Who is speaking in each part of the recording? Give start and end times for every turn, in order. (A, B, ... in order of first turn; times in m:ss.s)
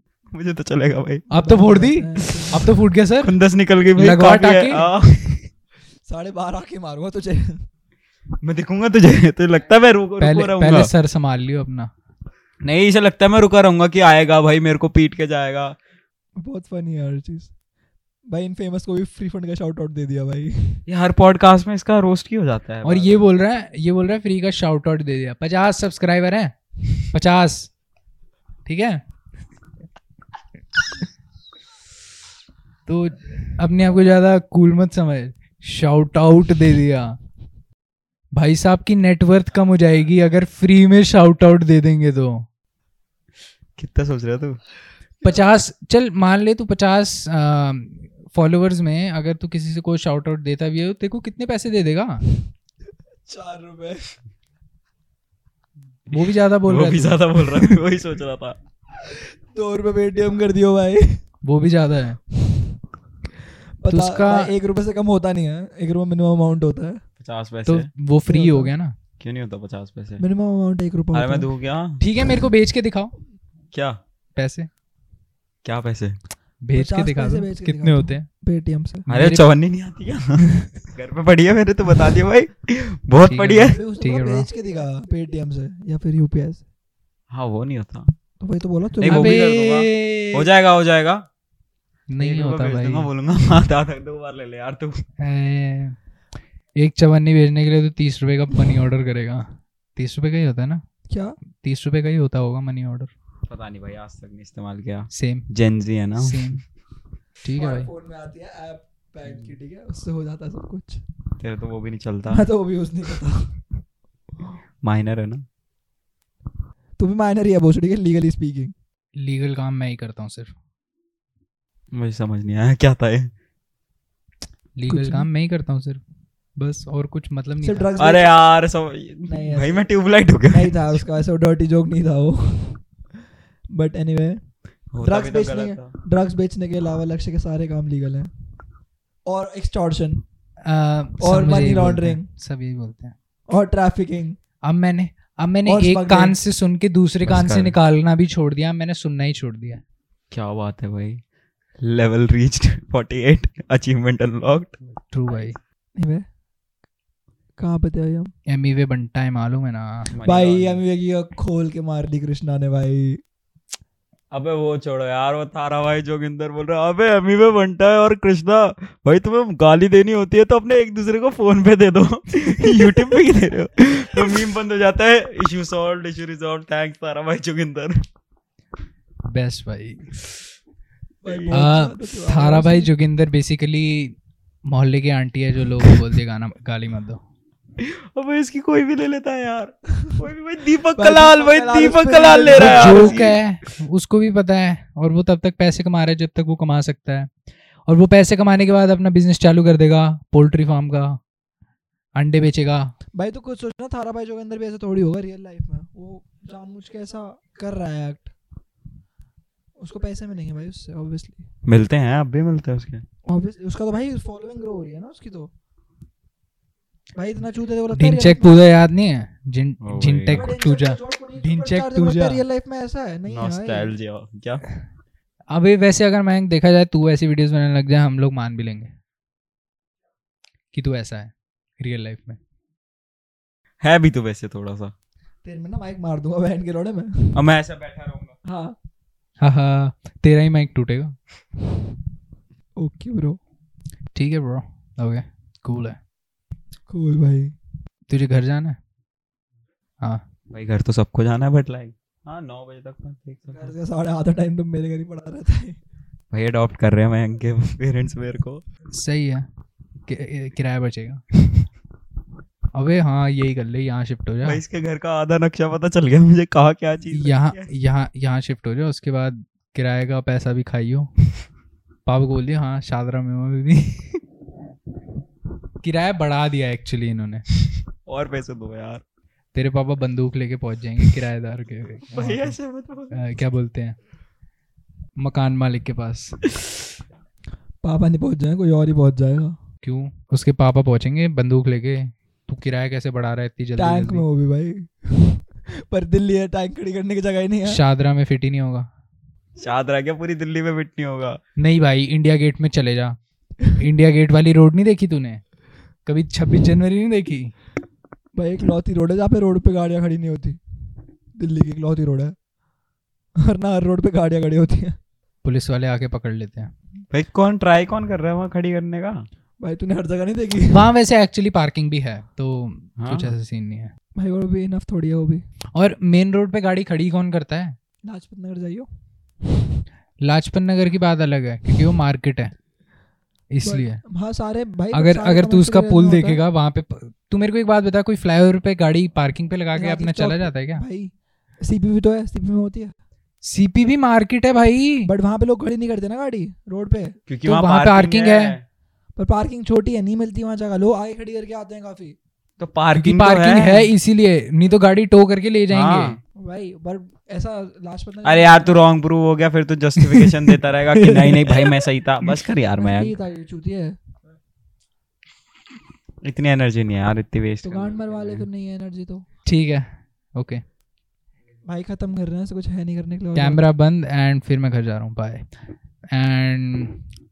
0:00.3-0:01.3 A
0:01.3-0:03.3 B
0:01.3-0:02.6 C
0:03.2-0:05.2 A
0:04.0-0:05.3 B
0:06.1-0:07.6 C
0:08.4-0:10.9 A
0:10.2-0:11.9 B
0:12.6-0:15.8 A
0:16.4-0:17.5 C
0:18.3-0:20.8 C
0:20.9-0:23.2 A
0:22.8-0:26.6 B
0:27.1-0:27.7 B
0:28.7-0:29.0 B
0:32.9-0:37.2 B
0:38.3-0:42.5 B
0:43.8-0:44.6 A
0:45.2-0:52.2 B
0:53.3-0:54.0 C
0:56.1-0:57.7 B
0:56.1-0:58.6 A
0:59.1-1:01.2 C
1:01.4-1:02.2 B
1:03.8-1:07.0 C
1:03.9-1:04.5 B
1:07.2-1:07.9 A
1:07.7-1:09.0 B
1:08.3-1:08.7 C
1:09.2-1:10.2 A
1:10.2-1:11.5 C
1:11.1-1:12.0 A
1:12.0-1:13.1 B
1:13.7-1:14.0 A
1:14.4-1:14.7 B
1:15.6-1:16.2 A
1:16.6-1:18.3 B
1:16.7-1:19.0 C
1:19.1-1:19.5 B
1:19.1-1:23.8 A
1:23.2-1:24.5 B
1:23.6-1:26.6 C
1:27.3-1:28.1 A
1:28.4-1:29.4 C
1:29.0-1:31.2 A
1:29.1-1:30.5 B
1:32.1-1:33.1 B
1:32.2-1:35.0 A
1:35.2-1:36.0 B
1:36.8-1:40.8 B
1:41.1-1:41.4 C
1:41.6-1:43.1 B
1:43.5-1:46.6 A
1:45.1-1:45.5 B
1:46.2-1:46.6 B
1:47.4-1:47.9 B
1:47.6-1:51.0 C
1:49.2-1:49.6 A
1:51.4-1:52.5 A
1:52.3-1:53.6 C
1:54.8-1:55.4 A
1:57.0-1:58.7 C
1:59.2-2:00.6 B
2:01.9-2:03.3 A
2:04.8-2:06.0 B
2:04.9-2:05.3 C
2:06.6-2:07.9 B
2:07.6-2:08.4 C
2:08.0-2:11.0 A
2:09.2-2:12.8 C
2:13.7-2:14.4 C
2:14.9-2:15.9 A
2:15.0-2:18.3 C
2:19.3-2:20.2 C
2:20.6-2:23.1 B
2:21.2-2:22.2 C
2:23.5-2:24.4 C
2:24.6-2:29.8 B
2:25.7-2:26.4 C
2:27.2-2:27.8 A
2:30.3-2:31.2 A
2:31.8-2:34.8 A
2:35.1-2:35.6 B
2:36.0-2:36.2 C
2:37.6-2:38.3 C
2:38.5-2:40.1 B
2:40.1-2:40.8 A
2:40.2-2:43.2 C
2:44.3-2:58.0 A
2:59.3-3:00.1 B
3:01.2-3:01.7 A
3:01.2-3:02.9 C
3:01.5-3:07.2 B
3:07.8-3:13.4 A
3:11.0-3:13.3 C
3:12.5-3:17.3 B
3:17.9-3:21.2 B
3:22.1-3:22.9 B
3:23.2-3:28.3 C
3:29.8-3:31.5 C
3:31.6-3:33.0 A
3:33.2-3:35.5 C
3:37.1-3:38.6 C
3:37.9-3:42.4 B
3:39.8-3:40.5 A
3:40.3-3:43.9 C
3:43.3-3:44.6 A
3:45.5-3:48.9 B
3:50.7-3:52.4 B
3:53.8-3:54.9 A
3:55.4-3:57.4 C
3:57.4-3:58.4 A
3:58.4-3:58.8 C
3:59.4-4:01.2 B
4:02.8-4:03.4 C
4:04.1-4:06.0 B
4:06.9-4:07.5 C
4:08.1-4:08.8 B
4:10.5-4:13.7 A
4:13.5-4:15.8 C
4:16.3-4:18.6 A
4:18.9-4:19.4 B
4:20.1-4:21.6 B
4:22.7-4:24.6 B
4:24.4-4:27.7 A
4:27.1-4:31.1 B
4:32.1-4:34.2 B
4:35.8-4:37.4 B
4:38.1-4:39.0 A
4:39.5-4:42.6 B
4:42.1-4:43.4 A
4:43.1-4:44.0 B
4:45.2-4:46.4 B
4:47.8-4:49.6 C
4:49.8-4:54.2 B
4:53.8-4:57.8 C
4:57.7-4:58.9 B
4:59.6-5:01.4 A
5:01.6-5:03.2 B
5:03.8-5:05.4 B
5:06.0-5:07.5 B
5:08.4-5:10.6 C
5:11.4-5:12.3 C
5:13.4-5:15.0 C
5:15.4-5:16.7 B
5:17.1-5:19.3 A
5:19.6-5:20.9 C
5:20.7-5:23.9 B
5:23.0-5:23.3 A
5:24.2-5:25.4 C
5:25.8-5:27.8 B
5:28.1-5:28.9 C
5:30.2-5:32.5 B
5:33.5-5:34.0 B
5:33.6-5:36.4 C
5:34.9-5:40.8 B
5:39.8-5:42.9 C
5:43.4-5:45.1 B
5:45.1-5:47.2 C
5:47.3-5:48.6 A
5:47.4-5:48.6 B
5:49.2-5:52.2 C
5:52.6-5:53.9 A
5:52.9-5:56.2 B
5:55.7-5:56.2 A
5:56.4-5:58.8 C
5:58.2-6:03.1 A
6:01.0-6:01.6 B
6:02.8-6:04.0 C
6:06.2-6:08.4 A
6:07.6-6:09.2 C
6:09.4-6:10.6 B
6:11.6-6:13.6 C
6:13.4-6:15.5 B
6:16.1-6:17.0 B